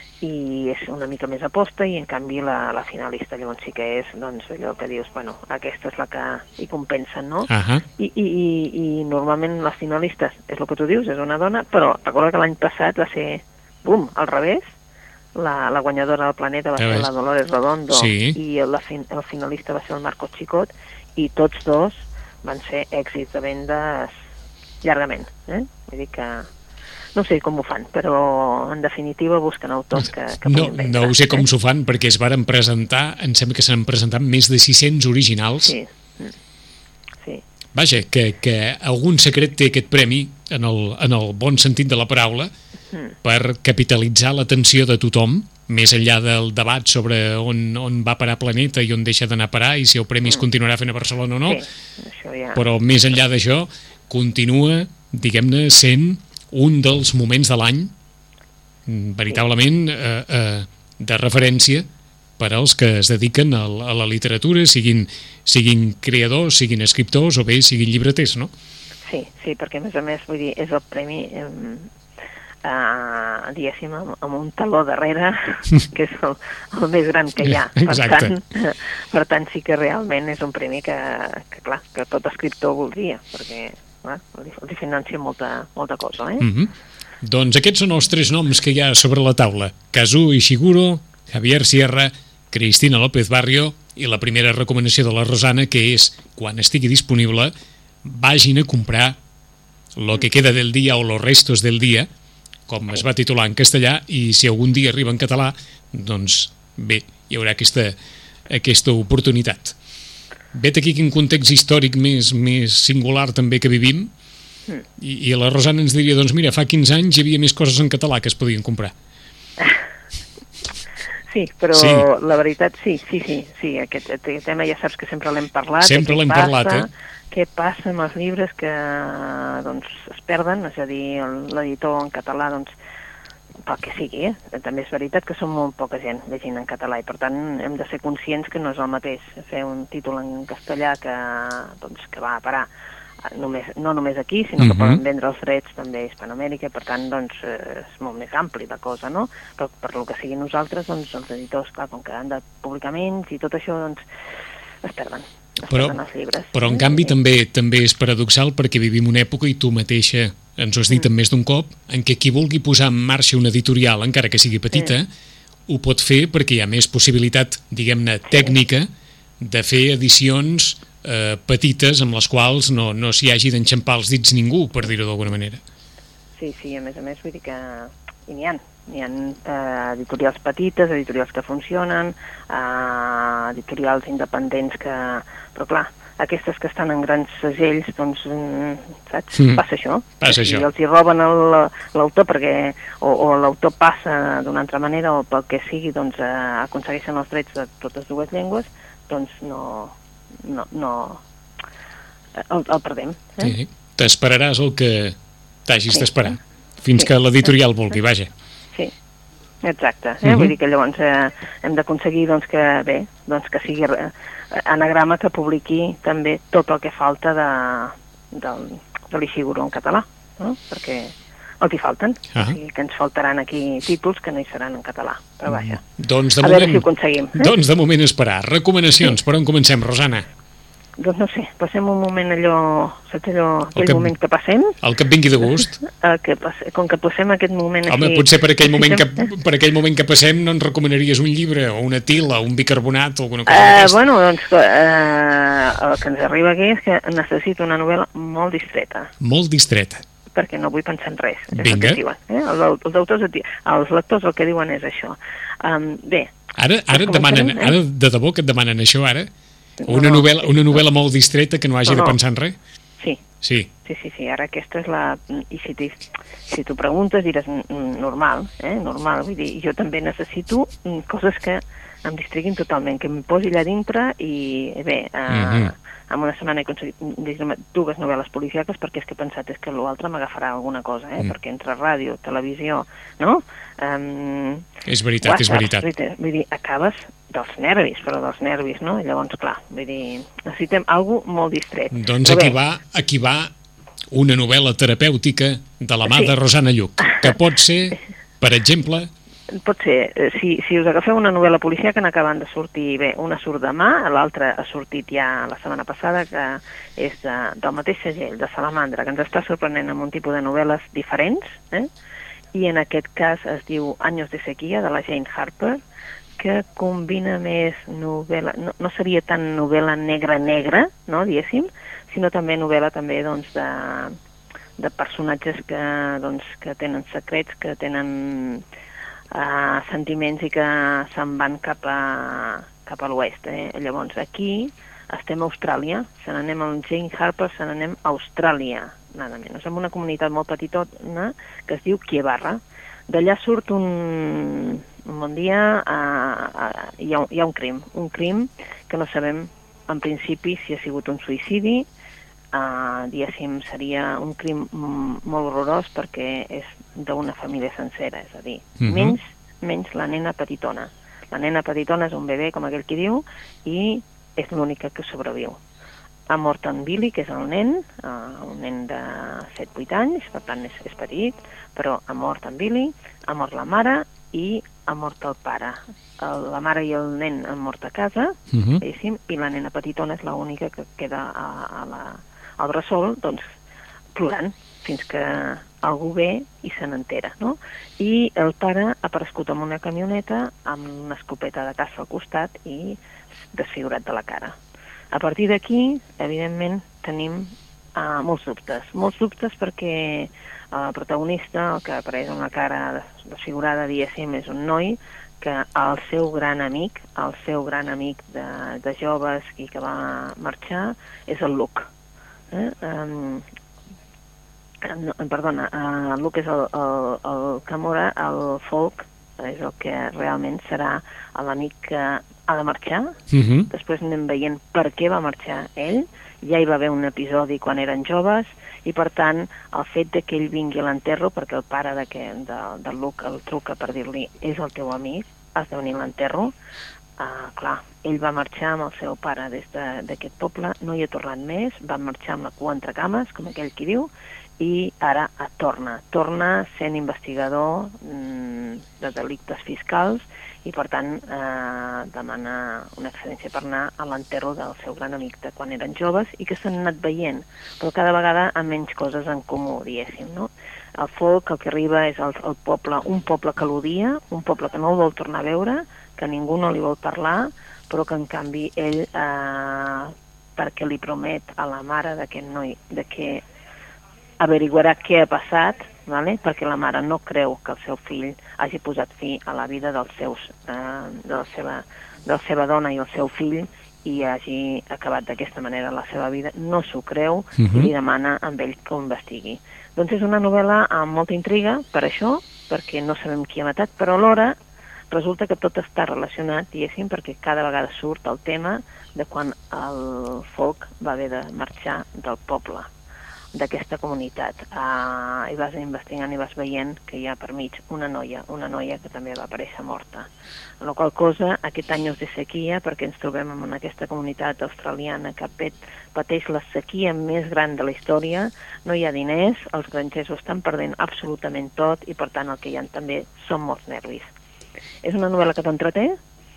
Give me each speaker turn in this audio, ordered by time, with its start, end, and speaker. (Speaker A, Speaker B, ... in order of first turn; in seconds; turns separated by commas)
Speaker A: 0.2-14.7, Speaker B: 7.5-7.8, Speaker A: 15.3-24.2, Speaker B: 16.8-17.1, Speaker B: 17.9-18.4, Speaker A: 24.8-26.5, Speaker A: 27.1-31.4, Speaker B: 30.5-35.8, Speaker A: 35.6-36.4, Speaker B: 37.8-42.5, Speaker B: 43.2-51.6, Speaker A: 51.5-52.6, Speaker B: 52.5-57.9, Speaker B: 58.9-61.9, Speaker B: 62.4-68.5, Speaker A: 69.1-71.9, Speaker A: 72.6-86.5, Speaker B: 77.4-78.3, Speaker B: 86.4-86.7, Speaker B: 87.2-97.5, Speaker B: 98.0-99.2, Speaker B: 100.0-102.1, Speaker B: 102.7-108.0, Speaker B: 108.5-109.8, Speaker B: 110.5-114.1, Speaker B: 115.0-118.9, Speaker A: 121.3-132.7, Speaker B: 121.7-122.1, Speaker B: 125.8-126.9, Speaker A: 133.7-142.7, Speaker A: 143.2-154.0, Speaker B: 144.6-145.0, Speaker A: 154.8-157.1, Speaker B: 155.7-156.0, Speaker B: 156.5-165.1, Speaker B: 165.7-168.9, Speaker B: 169.4-175.6, Speaker A: 176.4-201.2, Speaker B: 189.3-189.6, Speaker B: 190.2-190.7, Speaker A: 202.4-203.6, Speaker B: 203.4-205.2, Speaker B: 205.7-208.3, Speaker A: 209.6-225.8, Speaker B: 210.2-210.5, Speaker B: 225.5-230.3, Speaker A: 226.4-227.5, Speaker A: 231.0-234.8, Speaker B: 233.8-234.1, Speaker B: 234.8-235.8, Speaker A: 235.6-239.1, Speaker B: 237.9-244.0, Speaker A: 243.5-249.1, Speaker B: 249.2-250.0, Speaker A: 250.3-256.3, Speaker B: 251.6-252.0, Speaker B: 256.6-259.3, Speaker A: 256.9-257.8, Speaker A: 259.8-260.8, Speaker B: 259.9-262.6, Speaker A: 261.9-262.2, Speaker B: 263.4-263.7, Speaker A: 263.9-284.6, Speaker B: 275.3-275.7, Speaker B: 284.9-285.9, Speaker A: 285.2-292.6, Speaker B: 291.9-293.5, Speaker B: 294.1-299.1, Speaker A: 296.1-296.3, Speaker A: 299.5-311.9, Speaker A: 312.5-315.8, Speaker A: 316.4-324.2, Speaker A: 324.8-328.6, Speaker A: 329.3-351.9, Speaker A: 352.5-365.6, Speaker B: 358.8-359.2, Speaker A: 366.3-383.5, Speaker B: 378.5-378.8, Speaker A: 384.1-393.0, Speaker A: 393.5-394.6, Speaker A: 395.1-411.9, Speaker A: 412.5-413.4, Speaker A: 414.8-423.2, Speaker B: 423.3-423.7, Speaker A: 423.7-436.5, Speaker A: 437.2-473.4, Speaker A: 474.4-494.6, Speaker B: 487.6-487.9, Speaker A: 495.1-502.9, Speaker A: 503.5-510.3, Speaker A: 510.8-524.3, Speaker A: 525.0-526.2